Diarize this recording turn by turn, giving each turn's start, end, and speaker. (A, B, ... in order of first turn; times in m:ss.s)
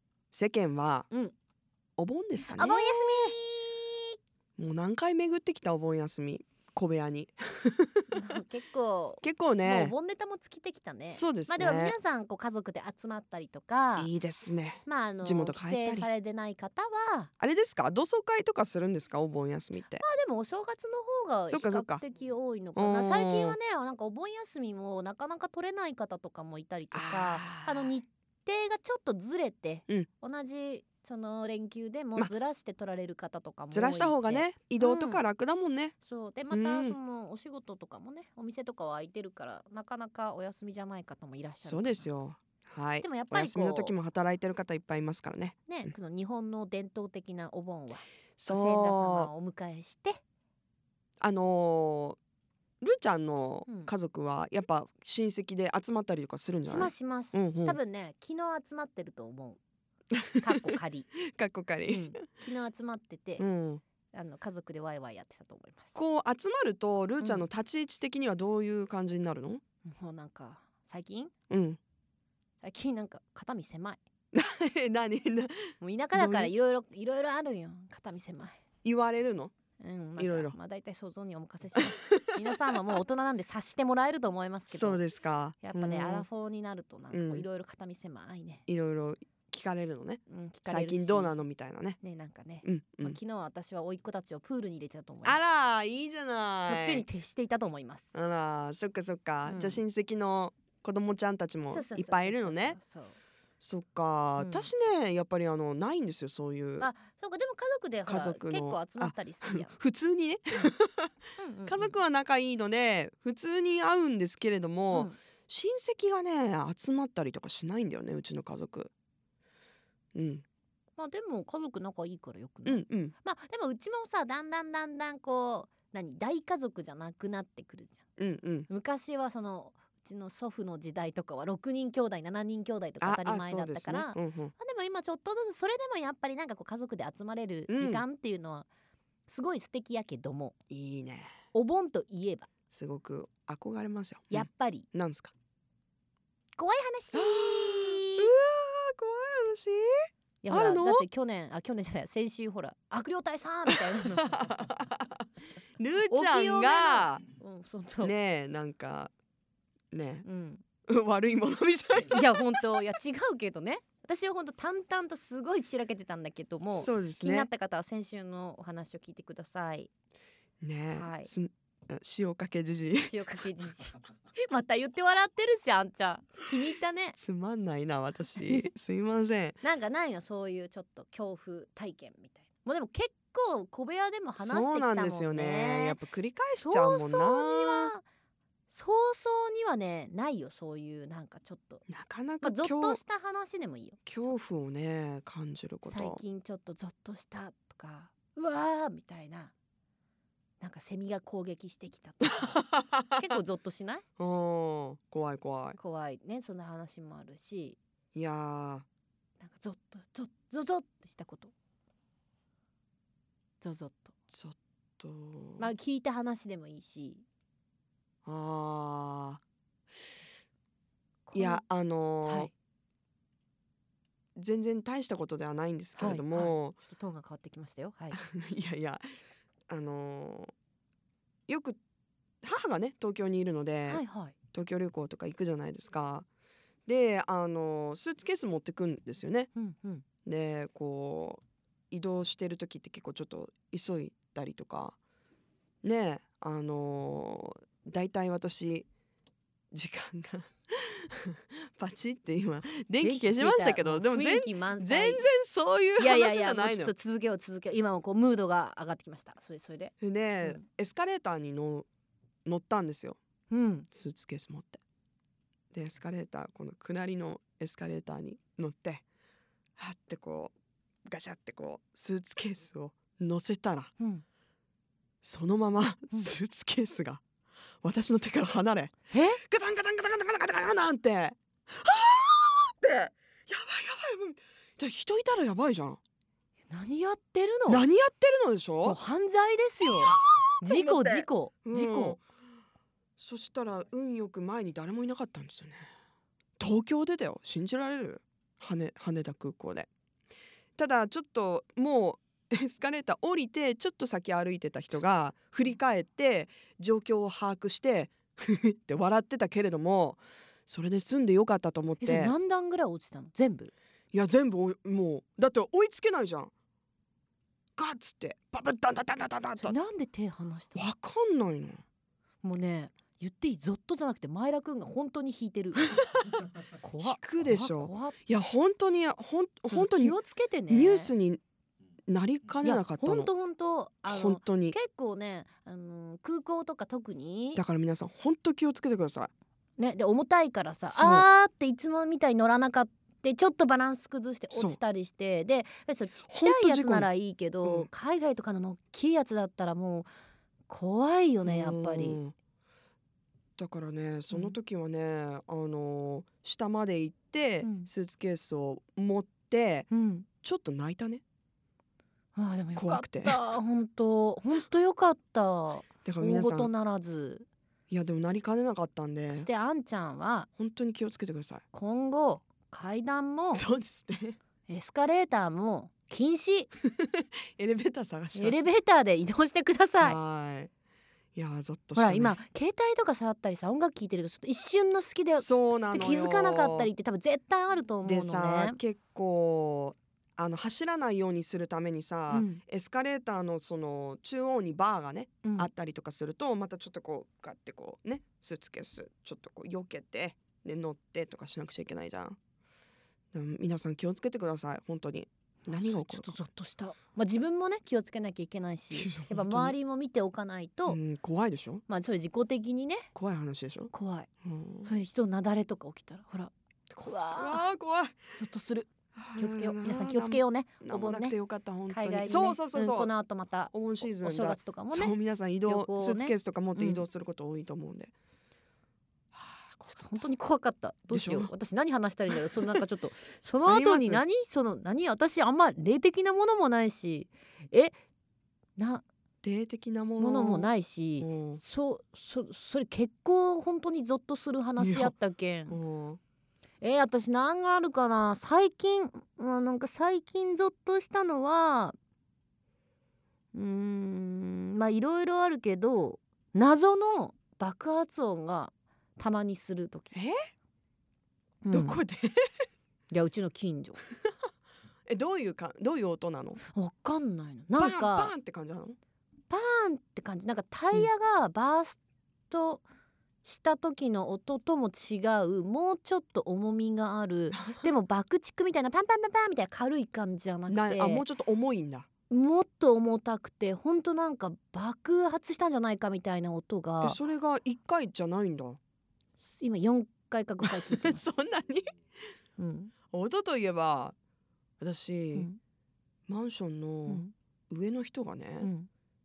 0:00.3-0:01.1 A
0:02.0-0:03.4 A
0:02.4-0:04.1 B
0:04.6-0:08.4 A
0:08.1-0:14.1 B
0:09.2-0:09.9 A
0:11.1-0:12.0 A
0:14.0-0:16.1 A
0:14.8-0:17.3 B
0:17.4-0:20.0 A
0:20.0-0:35.2 B
0:21.5-0:22.0 A
0:22.8-0:23.6 A
0:26.9-0:27.9 A
0:33.7-0:35.9 A
0:36.0-0:42.1 B
0:36.5-0:37.0 A
0:41.6-0:45.9 A
0:43.0-0:43.9 B
0:45.7-0:50.2 B
0:48.4-0:49.3 A
0:51.2-0:52.2 A
0:52.8-0:57.8 A
0:53.7-0:53.9 B
0:56.6-0:59.6 B
1:00.1-1:00.7 A
1:00.4-1:01.1 B
1:01.3-1:02.3 A
1:01.9-1:03.4 B
1:03.4-1:03.8 A
1:04.1-1:06.0 B
1:05.9-1:09.6 A
1:07.2-1:07.4 B
1:09.8-1:11.3 B
1:11.5-1:11.8 A
1:12.6-1:14.0 B
1:14.3-1:16.5 A
1:15.8-1:18.6 B
1:18.8-1:19.5 A
1:19.8-1:25.0 B
1:20.2-1:20.5 A
1:21.8-1:22.5 A
1:24.7-1:26.2 A
1:25.6-1:28.6 B
1:27.1-1:27.4 A
1:28.7-1:32.0 A
1:30.3-1:31.4 B
1:32.0-1:35.4 B
1:32.6-1:33.2 A
1:35.2-1:37.0 A
1:36.6-1:38.1 B
1:38.1-1:42.8 A
1:39.4-1:39.8 B
1:41.7-1:43.2 B
1:43.6-1:46.9 A
1:44.4-1:44.7 B
1:46.8-1:49.8 B
1:48.0-1:58.9 A
1:51.4-1:52.0 B
1:54.9-1:55.2 B
2:00.1-2:00.4 A
2:01.0-2:08.0 B
2:02.6-2:03.1 A
2:08.2-2:08.7 A
2:08.7-2:18.7 B
2:13.0-2:14.5 A
2:17.7-2:18.0 A
2:19.3-2:20.5 B
2:20.7-2:21.3 A
2:21.5-2:22.5 B
2:22.7-2:25.3 A
2:24.3-2:24.9 B
2:26.6-2:28.3 B
2:27.1-2:31.0 A
2:30.4-2:34.3 B
2:33.7-2:35.2 A
2:35.8-2:37.2 A
2:36.1-2:38.1 B
2:38.0-2:39.1 A
2:39.9-2:40.2 A
2:40.2-2:40.6 B
2:40.9-2:42.8 A
2:42.1-2:49.9 B
2:46.7-2:47.5 A
2:50.6-2:53.2 A
2:50.9-2:51.3 B
2:53.0-2:57.2 B
2:57.2-2:59.6 A
2:58.4-2:58.6 B
2:59.6-3:08.0 B
3:04.4-3:07.9 A
3:08.7-3:11.8 B
3:11.9-3:13.0 A
3:12.4-3:14.3 B
3:14.0-3:16.2 A
3:15.8-3:19.5 B
3:20.6-3:22.6 B
3:22.2-3:23.2 A
3:23.2-3:24.0 B
3:24.2-3:25.8 A
3:25.8-3:27.8 B
3:28.1-3:28.8 A
3:29.4-3:31.5 B
3:33.6-3:34.1 B
3:34.3-3:35.7 A
3:35.6-3:37.2 B
3:38.2-3:39.4 A
3:41.3-3:41.6 B
3:41.3-3:42.5 A
3:42.2-3:42.5 B
3:44.4-3:46.8 A
3:46.0-3:48.2 B
3:48.1-3:49.0 A
3:49.7-3:50.5 A
3:51.5-3:51.8 A
3:52.4-3:56.2 A
3:53.9-3:54.4 B
3:56.8-3:59.5 A
3:59.6-4:00.0 B
4:00.2-4:05.0 A
4:05.8-4:08.9 A
4:09.7-4:16.9 A
4:13.0-4:15.3 B
4:16.0-4:20.6 B
4:20.0-4:21.9 A
4:22.4-4:23.2 A
4:23.5-4:23.9 B
4:23.9-4:24.8 A
4:25.7-4:29.0 A
4:29.8-4:30.5 A
4:31.0-4:34.0 A
4:34.0-4:34.2 B
4:35.2-4:37.2 A
4:37.8-4:46.0 A
4:39.1-4:39.4 B
4:46.7-4:47.9 B
4:47.7-4:49.0 A
4:48.8-4:52.2 B
4:50.0-4:52.2 A
4:53.2-4:55.9 A
4:56.6-4:59.9 A
5:00.8-5:12.3 A
5:12.0-5:13.7 B
5:14.1-5:16.5 A
5:17.8-5:19.8 A
5:19.6-5:20.9 B
5:20.7-5:21.8 A
5:22.4-5:26.0 B
5:26.0-5:26.4 A
5:26.7-5:28.2 B
5:27.0-5:30.2 A
5:29.7-5:31.1 B
5:30.7-5:31.4 A
5:32.1-5:33.3 A
5:32.6-5:37.6 B
5:34.1-5:34.8 A
5:37.5-5:39.3 A
5:39.8-5:50.1 B
5:40.9-5:41.2 A
5:44.5-5:44.8 A
5:46.3-5:47.1 A
5:47.6-5:47.9 A
5:50.7-5:52.2 B
5:51.4-5:52.3 A
5:53.6-5:59.9 A
5:54.3-5:54.6 B
5:57.6-5:57.9 B
5:59.9-6:00.3 B
6:00.4-6:01.2 A
6:02.4-6:07.5 B
6:02.7-6:03.4 A
6:06.0-6:06.7 A
6:07.9-6:09.5 A
6:09.3-6:10.5 B
6:10.6-6:11.6 A
6:11.7-6:13.6 B
6:13.5-6:14.4 A
6:14.7-6:16.7 B
6:17.0-6:18.7 A
6:18.3-6:20.2 B
6:20.0-6:20.7 A
6:21.3-6:22.4 A
6:21.9-6:28.8 B
6:25.4-6:26.9 A
6:28.0-6:42.4 A
6:32.3-6:32.6 B
6:35.4-6:35.7 B
6:43.3-6:46.4 A
6:45.6-6:51.0 B
6:48.9-6:49.7 A
6:50.8-6:51.8 A
6:51.9-6:53.1 B
6:53.1-6:53.9 A
6:53.9-6:54.3 B
6:54.4-6:54.9 A
6:54.8-6:57.7 B
6:57.0-6:58.2 A
6:58.4-7:01.4 B
6:59.2-7:03.1 A
7:01.9-7:07.0 B
7:03.7-7:08.1 A
7:09.3-7:10.3 A
7:09.9-7:18.0 B
7:11.1-7:11.5 A
7:13.6-7:14.2 A
7:18.8-7:19.0 B
7:19.4-7:21.6 A
7:20.2-7:25.8 B
7:24.8-7:25.1 A
7:25.7-7:26.2 A
7:26.8-7:31.9 B
7:33.5-7:40.2 B
7:41.6-7:42.0 B
7:41.7-7:42.4 A
7:43.1-7:44.0 B
7:45.1-7:46.6 A
7:46.7-7:48.3 B
7:47.8-7:49.0 A
7:49.5-7:52.0 B
7:52.5-7:52.8 B
7:53.4-8:01.2 B
7:57.5-7:57.8 A
8:00.7-8:02.1 A
8:02.3-8:07.2 B
8:07.0-8:08.8 A
8:09.4-8:11.3 B
8:10.6-8:11.9 A
8:12.6-8:12.9 B
8:13.1-8:14.1 A
8:14.8-8:15.5 A
8:15.3-8:15.6 B
8:16.3-8:18.7 A
8:17.1-8:17.3 B
8:18.6-8:18.9 B